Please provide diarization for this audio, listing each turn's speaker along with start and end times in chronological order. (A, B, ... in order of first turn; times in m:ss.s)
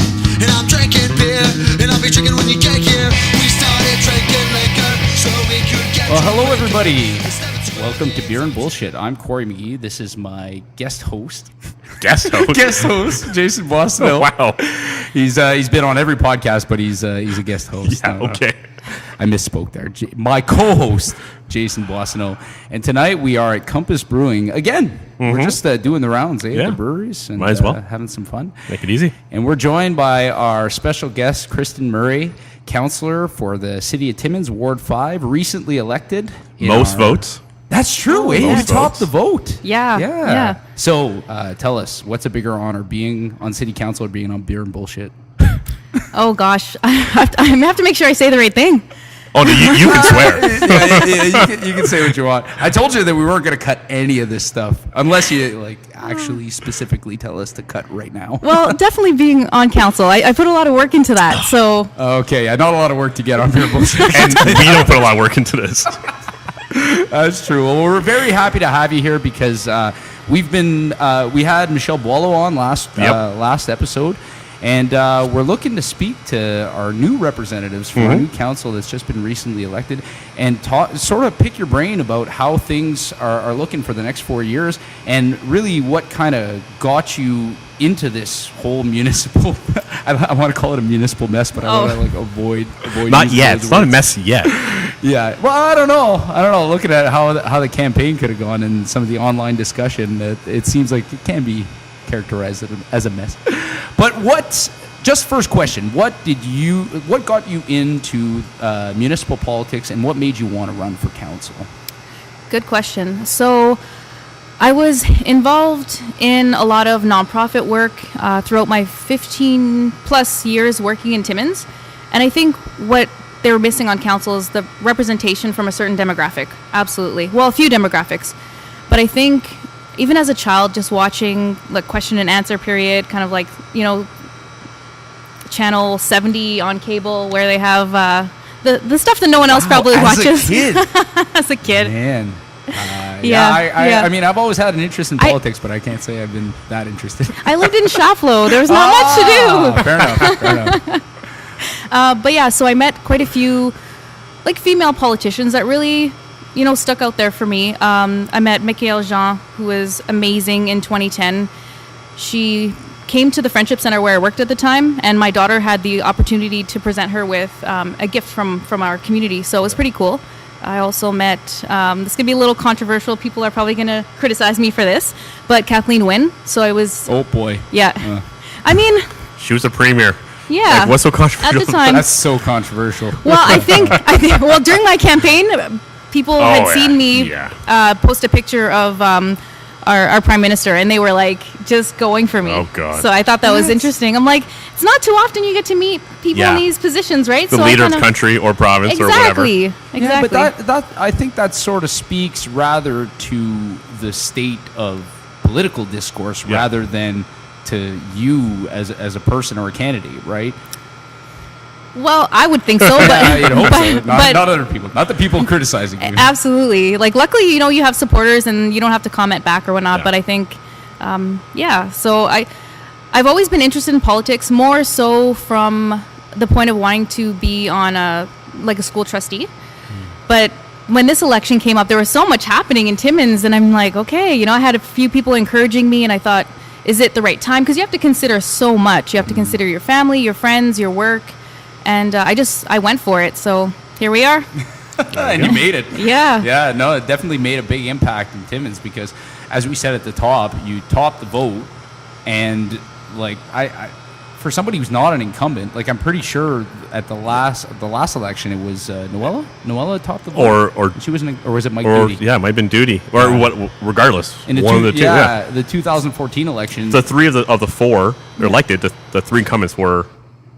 0:00.3-0:07.8 A
0:06.1-0:11.5 B
0:12.0-0:12.9 C
0:12.2-0:18.4 B
0:14.0-0:14.6 C
0:17.8-0:18.6 C
0:19.2-0:28.6 B
0:25.2-0:25.6 C
0:27.4-0:27.8 C
0:28.7-0:29.2 C
0:29.3-0:45.6 B
0:36.6-0:37.4 C
0:38.1-0:38.7 D
0:38.3-0:39.1 C
0:39.6-0:40.6 D
0:46.1-0:48.8 D
0:49.3-0:51.6 C
0:49.5-0:50.4 D
0:49.6-0:58.8 B
0:58.4-1:01.9 D
1:02.0-1:05.0 B
1:04.1-1:06.0 C
1:06.7-1:51.7 B
1:18.0-1:18.2 C
1:31.6-1:32.0 D
1:33.0-1:34.5 C
1:52.5-1:53.8 D
1:54.6-2:08.4 D
2:08.9-2:14.1 D
2:15.5-2:21.9 D
2:19.4-2:20.9 B
2:21.7-2:30.8 B
2:23.2-2:24.1 D
2:27.4-2:31.0 D
2:31.7-2:33.8 D
2:34.4-2:41.5 D
2:42.2-2:57.1 D
2:57.1-2:58.2 B
2:57.7-2:59.1 D
2:59.4-3:02.0 C
3:00.5-3:02.1 D
3:01.8-3:04.0 B
3:03.2-3:18.1 D
3:06.4-3:07.6 C
3:12.4-3:13.1 C
3:13.4-3:13.9 B
3:16.3-3:16.7 C
3:17.5-3:19.5 C
3:18.9-3:20.5 D
3:20.0-3:30.6 B
3:32.0-3:34.5 D
3:32.8-3:36.3 B
3:36.0-3:42.5 D
3:43.1-3:49.5 D
3:50.3-4:04.5 D
3:59.2-3:59.6 B
4:05.0-4:11.7 B
4:05.1-4:05.6 C
4:05.9-4:06.5 D
4:12.2-4:22.2 B
4:20.3-4:21.0 C
4:21.8-4:25.4 C
4:23.2-4:23.5 B
4:24.5-4:27.0 B
4:26.9-4:30.1 C